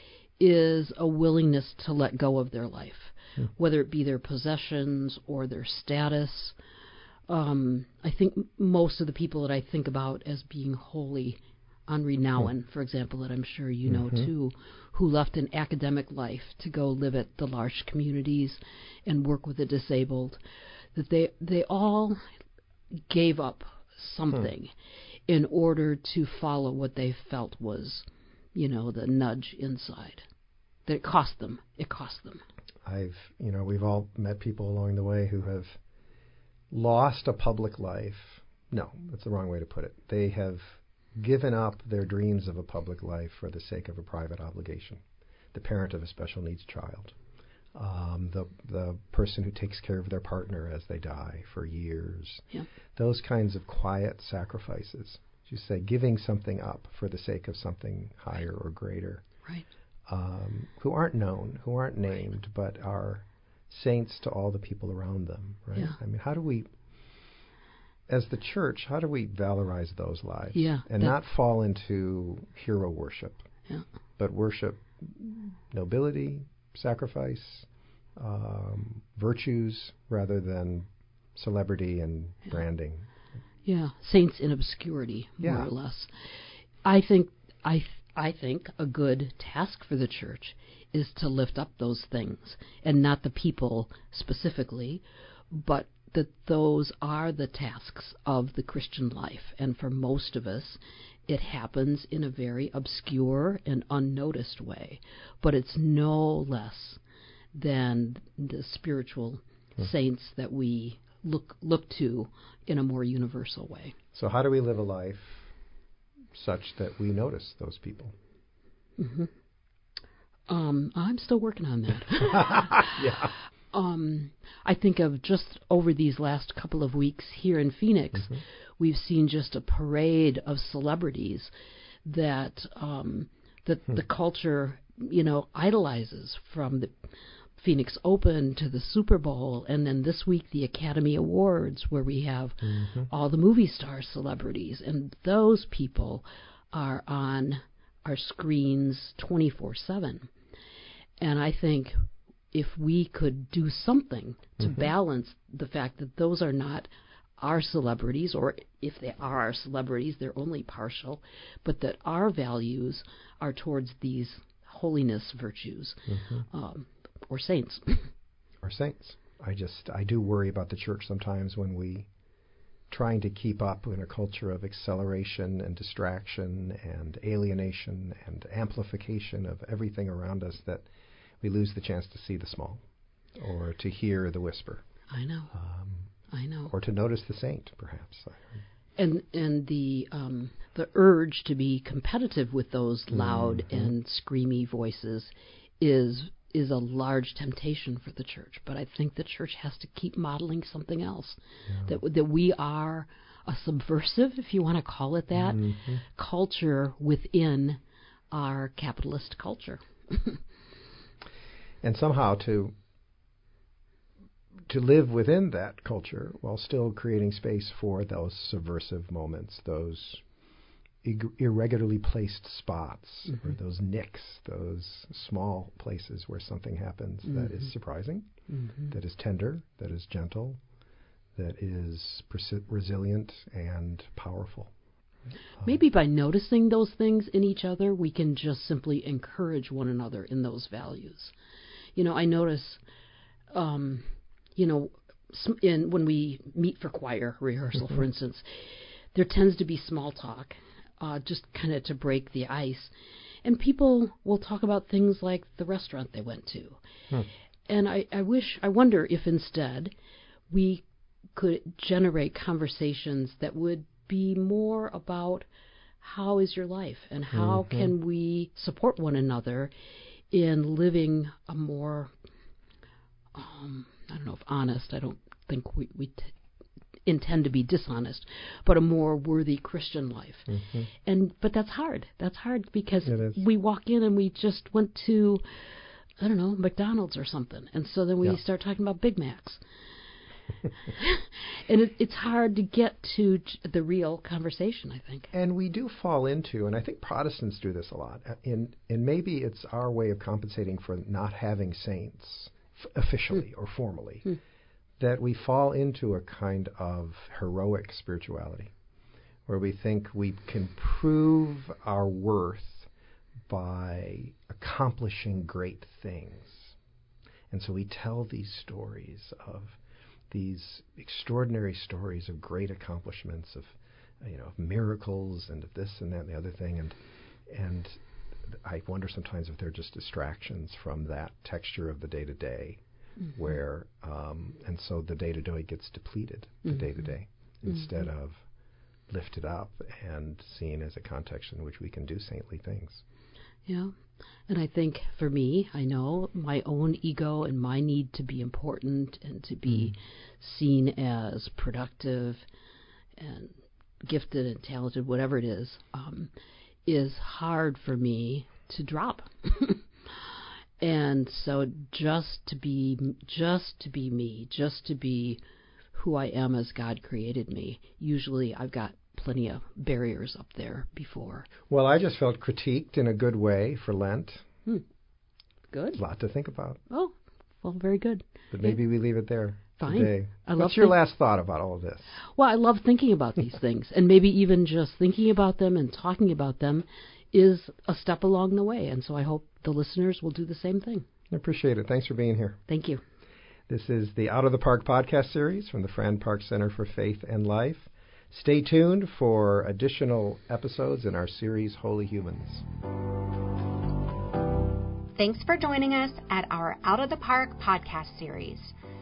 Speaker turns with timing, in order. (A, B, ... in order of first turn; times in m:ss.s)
0:00.4-0:06.6 A
0:07.3-0:20.4 A
0:20.9-0:22.2 A
0:23.1-0:24.7 A
0:25.3-0:30.2 A
0:30.8-0:32.4 A
0:32.8-0:35.8 B
0:36.7-0:45.0 B
0:45.5-0:47.2 B
0:47.7-0:59.2 B
1:00.1-1:06.7 B
1:08.1-1:13.4 B
1:10.5-1:11.1 A
1:14.2-1:23.1 B
1:23.6-1:26.1 A
1:25.4-1:25.7 B
1:26.8-1:47.0 A
1:47.5-1:54.0 A
1:54.1-1:55.5 B
1:56.3-1:58.1 B
1:59.0-1:59.3 A
2:00.5-2:11.5 A
2:02.4-2:03.3 B
2:12.0-2:16.9 A
2:17.6-2:30.3 A
2:22.8-2:23.1 B
2:31.2-2:32.0 A
2:32.5-2:48.1 A
2:46.1-2:46.4 B
2:48.6-2:52.1 B
2:52.9-3:00.8 B
3:01.4-3:02.8 B
3:03.4-3:04.8 B
3:05.1-3:05.5 A
3:05.5-3:06.1 B
3:06.3-3:06.7 A
3:06.7-3:08.6 B
3:09.0-3:27.8 A
3:13.1-3:13.9 B
3:25.4-3:26.0 B
3:28.3-3:30.4 A
3:31.8-3:32.7 B
3:34.7-3:40.2 B
3:41.0-3:48.3 B
3:48.9-3:50.6 B
3:51.4-3:54.7 B
3:55.6-4:01.3 A
4:02.0-4:02.8 A
4:03.5-4:12.9 A
4:13.4-4:16.8 A
4:17.7-4:19.9 A
4:20.5-4:20.8 A
4:21.3-4:25.4 A
4:26.0-4:29.7 A
4:27.3-4:27.9 B
4:30.3-4:32.1 A
4:33.3-4:36.3 A
4:37.0-4:45.4 A
4:40.5-4:40.8 B
4:43.1-4:43.4 B
4:46.2-4:49.6 A
4:50.8-4:55.3 A
4:55.3-5:04.4 B
5:05.0-5:08.7 B
5:09.5-5:12.9 B
5:13.5-5:16.7 B
5:17.5-5:19.8 B
5:20.3-5:27.0 B
5:27.5-5:32.8 B
5:33.3-5:38.4 B
5:39.1-5:43.0 B
5:43.6-5:43.9 A
5:44.5-5:52.4 A
5:53.2-5:56.3 A
5:56.8-5:59.8 A
6:00.8-6:05.4 A
6:05.9-6:11.5 A
6:11.7-6:14.4 B
6:15.7-6:16.0 A
6:15.9-6:16.8 B
6:16.9-6:18.8 A
6:18.5-6:22.2 B
6:19.8-6:21.0 A
6:22.4-6:31.0 A
6:31.3-6:32.6 B
6:32.7-6:33.0 A
6:33.7-6:42.6 B
6:45.2-6:48.7 C